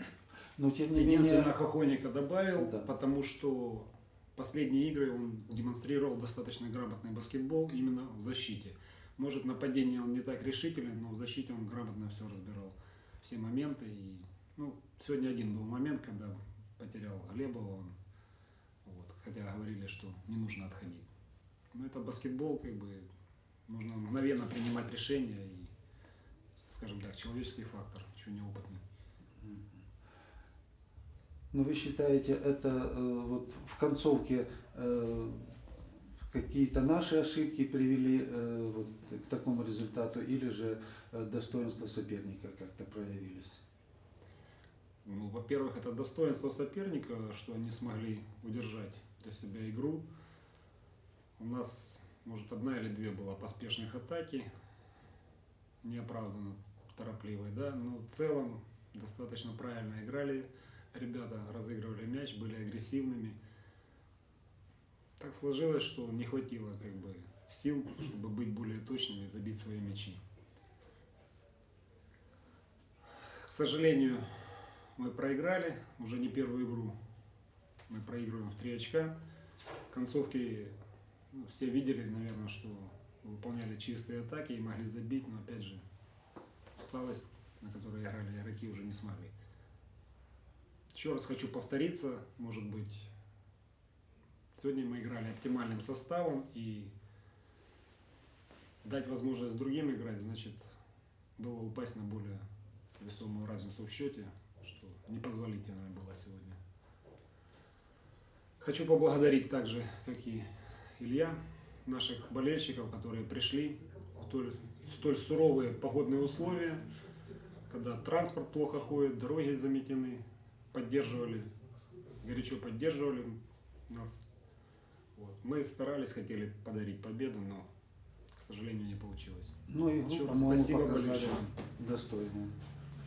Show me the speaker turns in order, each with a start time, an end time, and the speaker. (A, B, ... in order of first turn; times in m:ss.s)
0:00.6-0:01.5 A
0:01.0-0:17.9 B
0:02.6-0:02.9 A
0:18.8-0:21.1 B
0:21.7-0:23.1 B
0:23.7-0:25.7 B
0:26.7-0:28.8 B
0:31.5-0:35.6 A
0:36.3-0:43.6 A
0:45.0-0:50.0 B
0:51.4-0:54.5 B
0:55.8-1:03.4 B
1:05.2-1:10.2 B
1:13.4-1:16.9 B
1:17.9-1:19.2 B
1:19.9-1:20.7 B
1:21.3-1:25.8 B
1:26.8-1:29.3 B
1:30.9-1:33.1 B
1:34.5-1:36.9 B
1:38.8-1:40.6 B
1:41.4-1:42.4 B
1:43.0-1:46.6 B
1:48.6-1:50.4 B
1:51.0-1:56.8 B
1:57.7-2:01.5 B
2:02.2-2:04.2 B
2:05.2-2:07.7 B
2:08.3-2:09.6 B
2:09.7-2:12.6 A
2:10.1-2:11.4 B